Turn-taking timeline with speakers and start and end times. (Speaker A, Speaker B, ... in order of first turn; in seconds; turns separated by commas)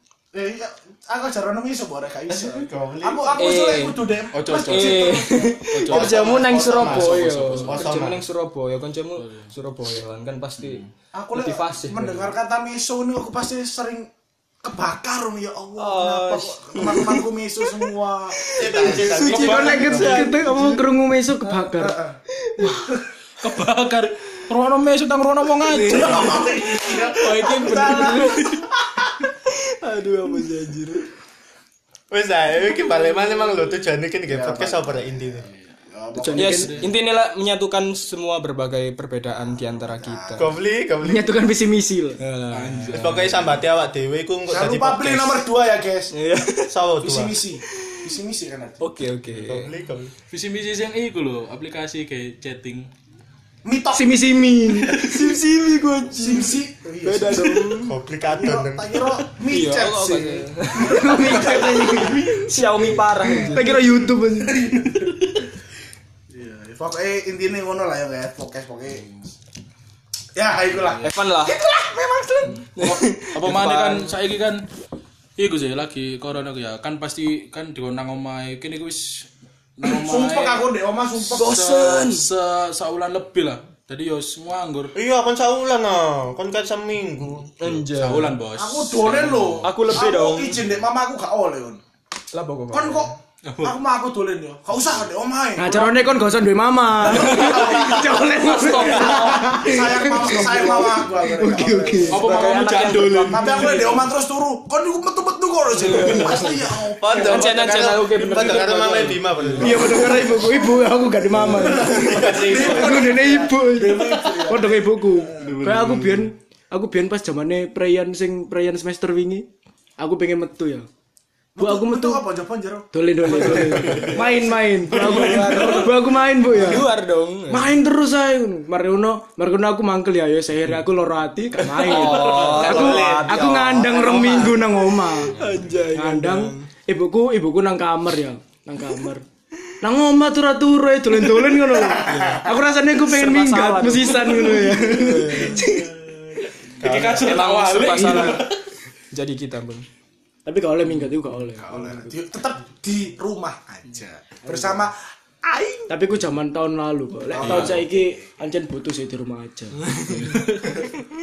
Speaker A: 0.3-7.4, Speaker B: 2.3-3.6, Speaker C: 3.4-4.0, Speaker D: 4.3-6.2, Speaker C: 4.7-12.3, Speaker B: 5.9-8.3, Speaker D: 7.4-7.8, Speaker D: 9.2-9.5, Speaker A: 11.1-14.1, Speaker A: 14.6-20.4, Speaker C: 15.8-20.8, Speaker B: 18.6-20.2, Speaker E: 19.2-22.0, Speaker A: 21.8-22.2, Speaker C: 22.4-22.8, Speaker A: 22.7-23.0, Speaker D: 23.4-28.6, Speaker C: 25.6-28.5, Speaker A: 25.8-29.1, Speaker C: 29.5-31.1, Speaker B: 32.1-35.5, Speaker A: 34.3-36.8, Speaker E: 36.1-36.7, Speaker C: 36.4-40.6, Speaker D: 36.5-36.9, Speaker A: 39.6-40.6, Speaker B: 40.4-41.3, Speaker E: 41.0-42.2, Speaker C: 42.2-43.2, Speaker D: 42.5-43.6, Speaker B: 42.9-45.4, Speaker A: 44.5-46.1, Speaker C: 46.1-46.8, Speaker B: 46.7-47.4, Speaker A: 47.0-48.8, Speaker C: 47.7-48.1, Speaker C: 48.8-49.7, Speaker B: 49.4-50.1, Speaker D: 50.3-52.9, Speaker A: 53.6-54.2, Speaker E: 53.9-55.0, Speaker C: 54.9-58.0, Speaker A: 56.1-62.1, Speaker B: 57.8-59.1, Speaker C: 59.5-64.0, Speaker E: 60.7-62.5, Speaker E: 63.2-64.7, Speaker D: 64.8-65.1, Speaker A: 66.6-69.1, Speaker A: 70.3-72.6, Speaker C: 71.0-71.6, Speaker D: 72.5-74.7, Speaker C: 72.8-74.1, Speaker D: 75.4-80.7, Speaker A: 79.9-81.6, Speaker D: 81.2-84.9, Speaker C: 81.3-82.3, Speaker B: 85.0-87.5, Speaker C: 87.6-88.3, Speaker D: 87.7-89.7, Speaker A: 88.6-91.8, Speaker C: 89.6-90.7, Speaker C: 92.3-93.1, Speaker A: 92.7-96.0, Speaker D: 93.5-93.8, Speaker E: 95.6-103.6, Speaker C: 97.1-99.7, Speaker A: 97.2-98.1, Speaker A: 99.5-107.8, Speaker D: 102.1-104.1, Speaker C: 105.7-109.6, Speaker B: 107.0-110.1, Speaker D: 109.2-109.8, Speaker E: 109.6-119.5, Speaker A: 111.5-115.3, Speaker B: 111.8-113.0, Speaker D: 115.4-116.3, Speaker E: 120.0-120.9, Speaker A: 121.5-126.0, Speaker E: 121.6-122.3, Speaker E: 122.9-126.9, Speaker D: 123.5-124.2, Speaker D: 124.9-125.9, Speaker C: 126.5-127.8, Speaker E: 127.5-135.4, Speaker C: 131.8-133.3, Speaker D: 131.9-132.7, Speaker B: 132.2-134.6, Speaker A: 132.5-134.6, Speaker C: 135.2-136.7, Speaker D: 135.4-135.7, Speaker E: 135.9-139.2, Speaker E: 139.8-145.9, Speaker A: 141.7-142.3, Speaker C: 143.0-145.6, Speaker B: 146.8-147.5, Speaker D: 146.8-148.6, Speaker C: 147.2-148.5, Speaker E: 147.9-148.4, Speaker C: 149.1-149.9, Speaker E: 150.5-152.2, Speaker A: 151.6-155.9, Speaker E: 155.9-159.8, Speaker A: 157.3-158.0, Speaker D: 157.4-157.8, Speaker C: 159.9-160.3, Speaker D: 160.1-160.9